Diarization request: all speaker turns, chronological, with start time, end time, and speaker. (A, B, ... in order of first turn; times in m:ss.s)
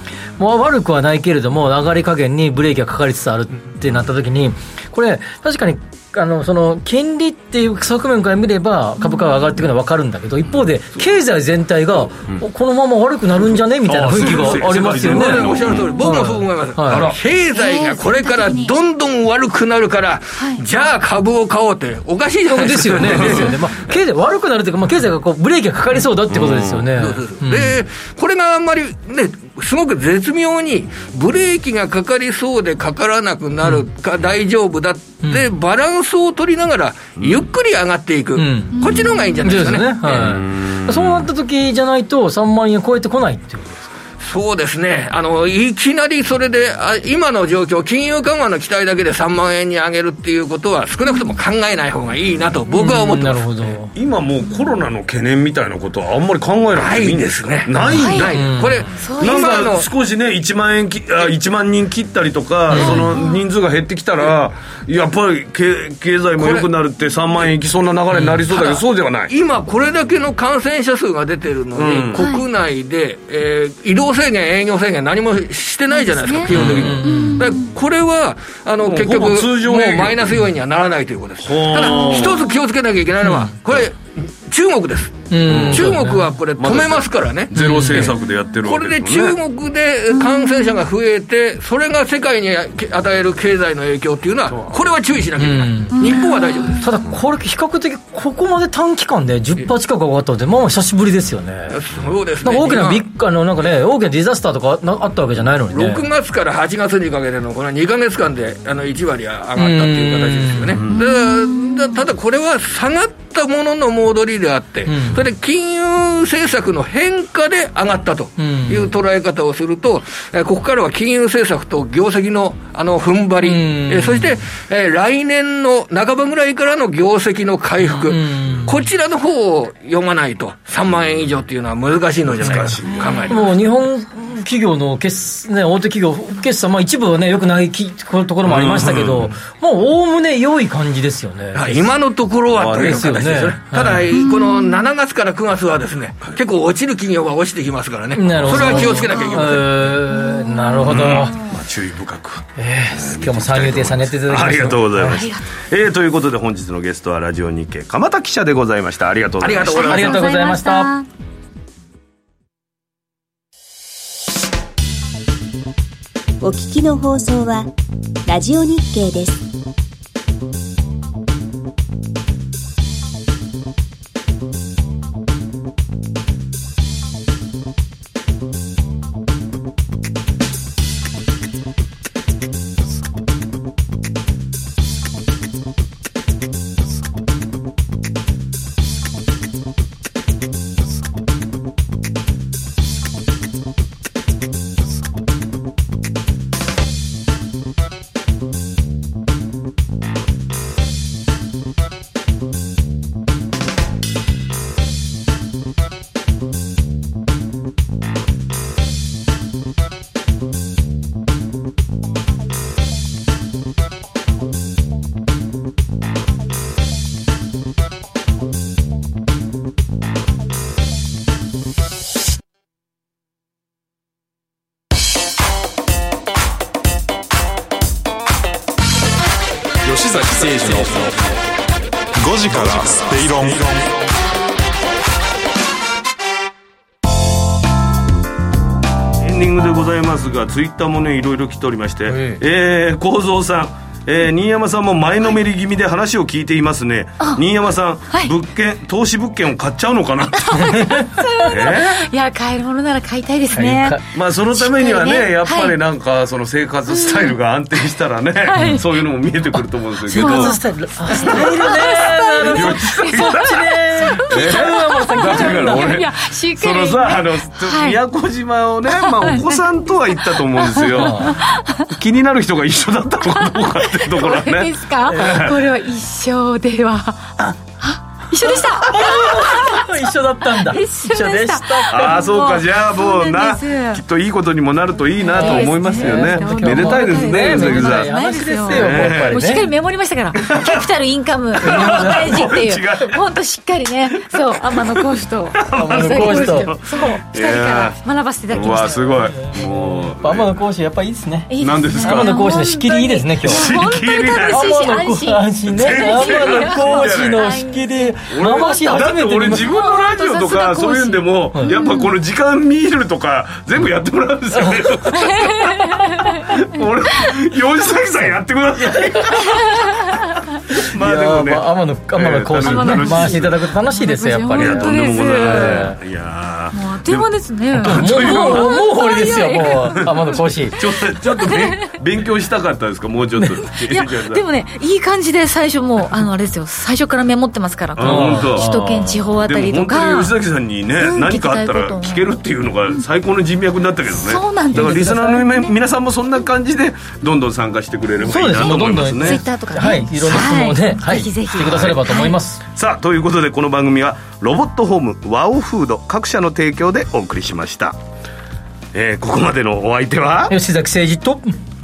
0:00.4-0:17.1 A
0:13.8-0:16.0 B
0:14.5-0:23.5 C
0:16.9-0:17.2 B
0:17.5-0:18.8 D
0:20.4-0:20.6 D
0:22.5-0:27.8 A
0:23.0-0:23.4 B
0:26.3-0:26.9 B
0:27.0-0:40.2 C
0:35.2-0:35.5 A
0:37.2-0:37.4 B
0:38.4-0:38.9 A
0:38.8-0:39.6 D
0:39.4-0:43.9 A
0:40.0-0:41.2 B
0:44.2-0:53.7 C
0:52.7-0:53.9 A
0:53.9-0:58.4 B
0:56.8-0:59.9 C
0:57.9-0:58.3 D
0:58.0-0:58.8 A
0:59.0-0:59.6 D
0:59.2-1:09.3 B
1:02.7-1:03.1 A
1:02.8-1:03.4 D
1:06.4-1:06.7 C
1:08.1-1:08.4 A
1:08.5-1:28.1 C
1:11.7-1:12.3 B
1:12.2-1:12.4 D
1:15.9-1:17.7 D
1:16.5-1:17.0 B
1:16.5-1:17.5 A
1:18.8-1:20.5 B
1:21.4-1:22.6 B
1:21.9-1:22.4 D
1:23.2-1:23.5 A
1:25.3-1:26.3 A
1:25.4-1:29.4 B
1:27.5-1:28.1 A
1:28.6-1:36.9 C
1:30.1-1:30.8 D
1:35.4-1:41.8 A
1:35.9-1:36.8 D
1:41.7-1:43.0 C
1:42.4-1:46.1 A
1:45.7-2:13.4 C
1:49.6-1:50.8 A
1:50.7-1:51.0 B
1:50.9-1:52.0 D
1:54.8-1:55.2 A
1:58.4-1:58.9 A
2:03.4-2:04.4 A
2:07.9-2:08.8 A
2:12.3-2:13.2 B
2:12.8-2:13.4 D
2:13.3-2:21.9 A
2:18.4-2:19.4 B
2:21.5-2:29.7 C
2:22.5-2:23.2 B
2:22.7-2:24.0 A
2:24.1-2:24.8 D
2:28.1-2:31.4 A
2:28.2-2:28.9 B
2:28.8-2:31.3 D
2:30.8-2:39.8 B
2:32.6-2:35.2 A
2:35.1-2:35.4 D
2:39.4-2:40.2 C
2:39.7-2:41.0 D
2:39.7-2:40.9 A
2:46.4-2:47.7 E
2:48.2-2:49.4 E
3:49.8-3:51.3 F
3:52.2-3:53.9 F
3:59.2-4:12.1 B
4:02.1-4:02.4 A
4:10.4-4:14.0 D
4:10.7-4:11.1 A
4:13.6-4:14.0 A
4:14.1-4:35.6 B
4:14.5-4:15.7 D
4:16.9-4:17.4 D
4:18.5-4:19.0 D
4:20.1-4:26.0 A
4:20.1-4:28.0 D
4:28.9-4:31.9 D
4:30.9-4:31.3 A
4:33.4-4:44.0 D
4:35.1-4:35.4 A
4:38.4-4:42.2 A
4:41.9-4:48.1 B
4:45.2-4:59.3 D
4:45.4-4:49.7 A
4:48.7-4:49.4 B
4:50.3-4:50.9 B
4:51.6-4:52.5 A
4:51.6-4:53.2 B
4:54.3-4:58.0 B
4:55.7-4:56.7 A
4:58.5-5:00.5 B
4:59.3-5:03.8 A
5:01.5-5:08.7 D
5:01.6-5:02.5 B
5:03.4-5:04.9 B
5:04.5-5:09.7 A
5:05.7-5:07.6 B
5:08.3-5:19.8 B
5:09.5-5:12.1 D
5:14.5-5:14.8 A
5:15.1-5:16.5 D
5:19.0-5:19.4 A
5:19.5-5:19.8 D
5:20.7-5:26.0 A
5:20.8-5:23.6 B
5:22.6-5:25.9 D
5:24.5-5:28.7 B
5:26.7-5:30.3 D
5:27.7-5:30.8 A
5:29.6-5:30.2 B
5:30.7-5:34.4 B
5:31.1-5:31.9 D
5:33.8-5:40.3 D
5:38.0-5:49.4 B
5:38.0-5:39.0 A
5:41.0-5:43.0 D
5:44.2-5:45.7 D
5:44.7-5:45.4 A
5:48.3-5:52.6 A
5:48.6-5:52.4 D
5:51.6-5:52.0 B
5:52.7-5:58.0 B
5:58.9-6:00.5 B
6:00.5-6:01.6 A